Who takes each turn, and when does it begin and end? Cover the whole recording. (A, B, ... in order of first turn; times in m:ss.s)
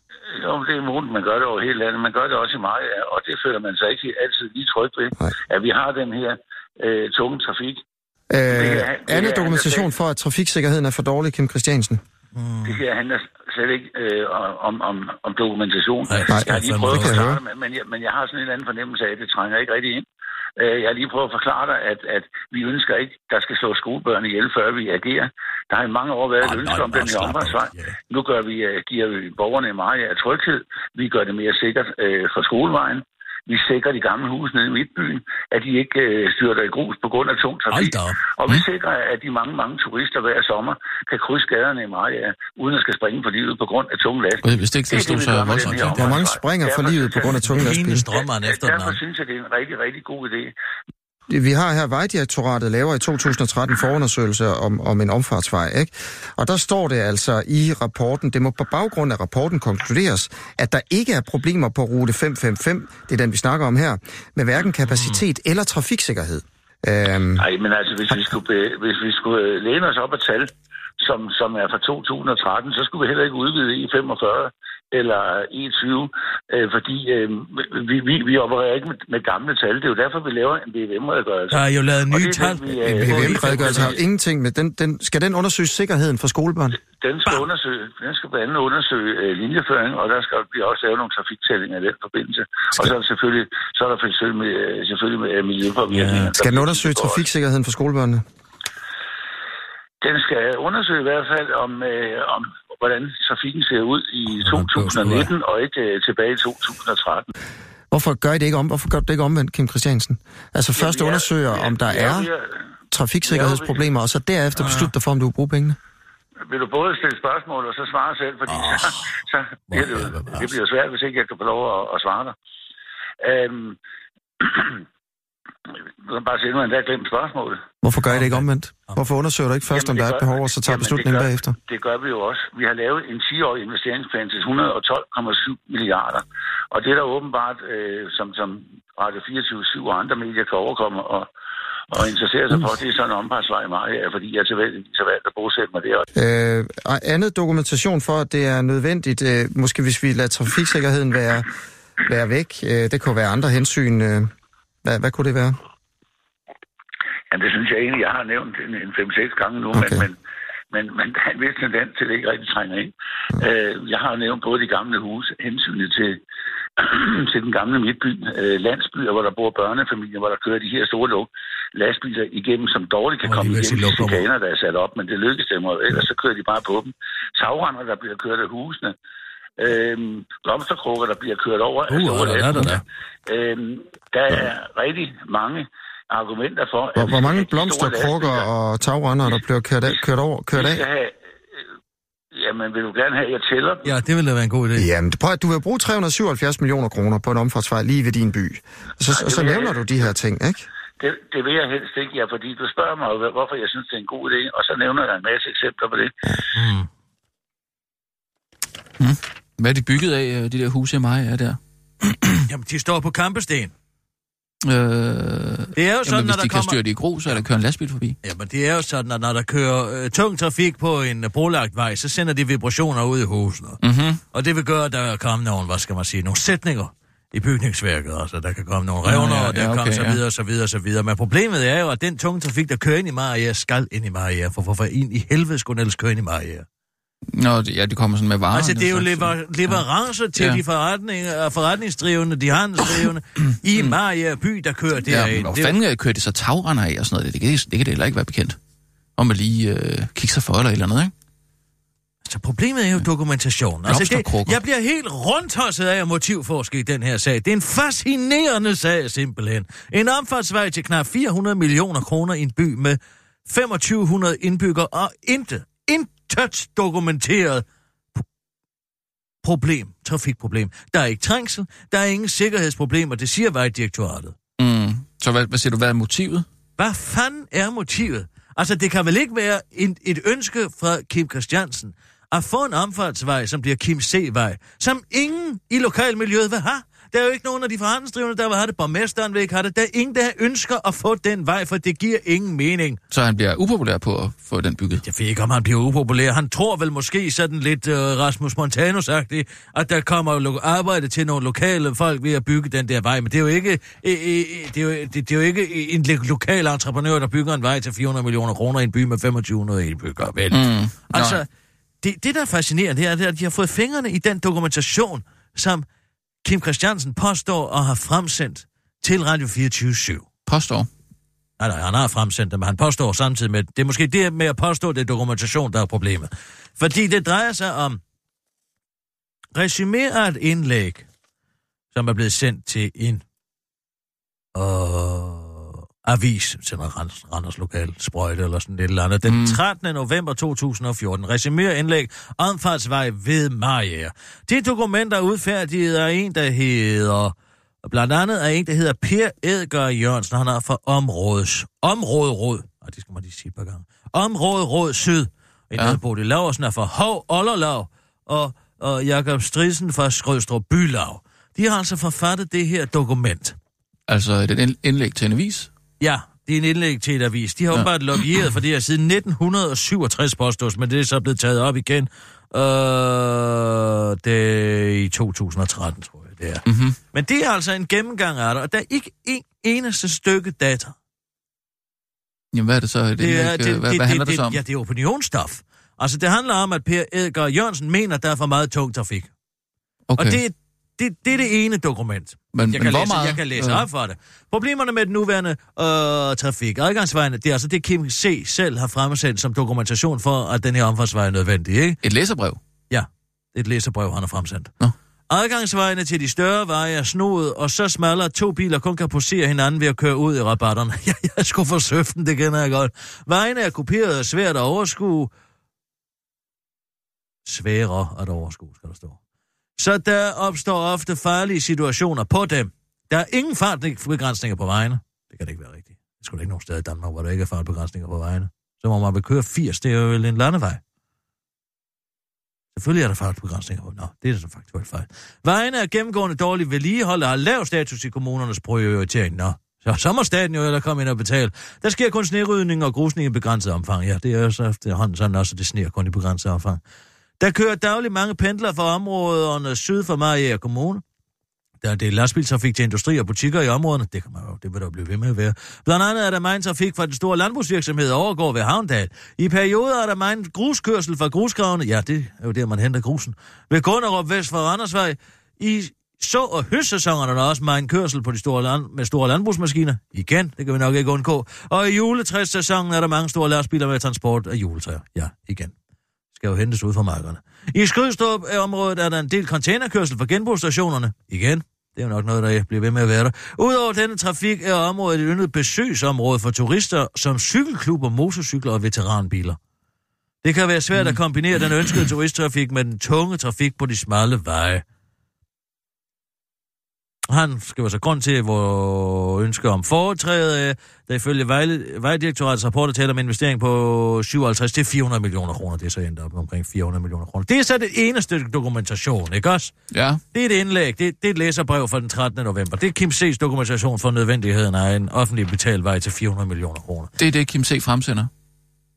0:00.3-0:07.8 A
0:08.3-0:12.0 B
0:08.5-0:09.9 A
0:12.3-0:12.8 C
0:12.6-0:20.0 A
0:16.1-0:17.2 C
0:16.3-0:17.4 B
0:20.6-0:50.5 A
0:26.4-0:27.9 C
0:37.7-0:38.2 C
0:44.4-0:46.2 D
0:45.9-0:48.0 B
0:47.5-0:49.0 C
0:51.3-1:07.4 B
1:04.9-1:05.2 C
1:07.4-1:10.5 A
1:11.0-1:24.0 A
1:21.5-1:24.0 C
1:22.9-1:26.8 B
1:26.9-1:37.2 A
1:35.9-1:36.3 C
1:36.4-1:38.2 B
1:40.0-1:47.3 A
1:44.4-1:45.3 C
1:47.9-1:52.3 B
1:50.8-1:52.6 A
1:52.9-1:55.8 B
1:53.2-1:53.8 A
1:54.6-1:54.9 C
1:56.4-2:02.3 A
1:58.5-1:59.1 C
1:59.7-2:00.5 C
2:03.2-2:03.8 A
2:04.4-2:04.8 A
2:05.7-2:07.6 A
2:07.8-2:11.6 B
2:08.0-2:09.0 C
2:09.7-2:21.3 A
2:21.9-2:26.0 A
2:26.1-2:31.5 B
2:32.0-2:34.3 B
2:34.8-2:35.6 B
2:37.3-2:40.2 A
2:39.7-2:40.0 B
2:40.7-2:46.2 A
2:46.8-2:58.9 A
2:53.2-2:54.2 C
2:59.6-3:08.4 A
3:01.9-3:02.8 C
3:07.0-3:10.8 B
3:09.2-3:10.0 A
3:10.6-3:11.2 A
3:12.3-3:13.9 A
3:13.8-3:14.9 C
3:14.8-3:20.7 B
3:19.1-3:20.1 A
3:21.0-3:26.2 A
3:26.5-3:26.9 C
3:29.0-3:32.5 D
3:32.5-3:33.7 C
3:34.6-3:38.2 D
3:35.8-3:37.4 C
3:38.2-3:43.8 C
3:43.8-3:44.2 D
3:44.3-3:56.6 C
3:49.0-3:50.2 D
3:57.3-4:00.6 D
3:58.5-4:05.7 C
4:05.0-4:08.6 D
4:09.2-4:11.1 D
4:12.3-4:27.6 C
4:13.8-4:14.6 D
4:29.4-4:34.4 C
4:34.6-4:36.4 D
4:36.8-4:53.0 C
4:53.1-4:55.0 D
4:55.0-5:11.4 C
5:10.5-5:11.4 D
5:12.0-5:15.8 C
5:16.4-5:20.2 C
5:20.4-5:20.9 D
5:21.6-5:28.0 C
5:29.5-5:31.0 C
5:31.9-5:33.2 C
5:34.5-6:03.6 C
5:39.2-5:39.6 D
6:04.1-6:05.7 D
6:06.0-6:20.9 C
6:16.6-6:17.0 D
6:22.5-6:24.6 D
6:23.2-6:29.3 C
6:30.1-6:30.4 D
6:30.2-6:42.0 C
6:32.5-6:33.8 D
6:42.0-6:42.6 D
6:42.9-6:44.7 C
6:45.3-6:55.3 C
6:57.4-6:59.2 C
6:59.8-7:10.8 C
7:12.7-7:26.8 C
7:27.4-7:31.0 C
7:31.8-7:55.7 C
7:56.3-8:09.6 C
8:10.4-8:14.8 C
8:17.3-8:29.7 C
8:29.9-8:30.2 D
8:30.3-8:37.1 C
8:37.2-8:38.3 D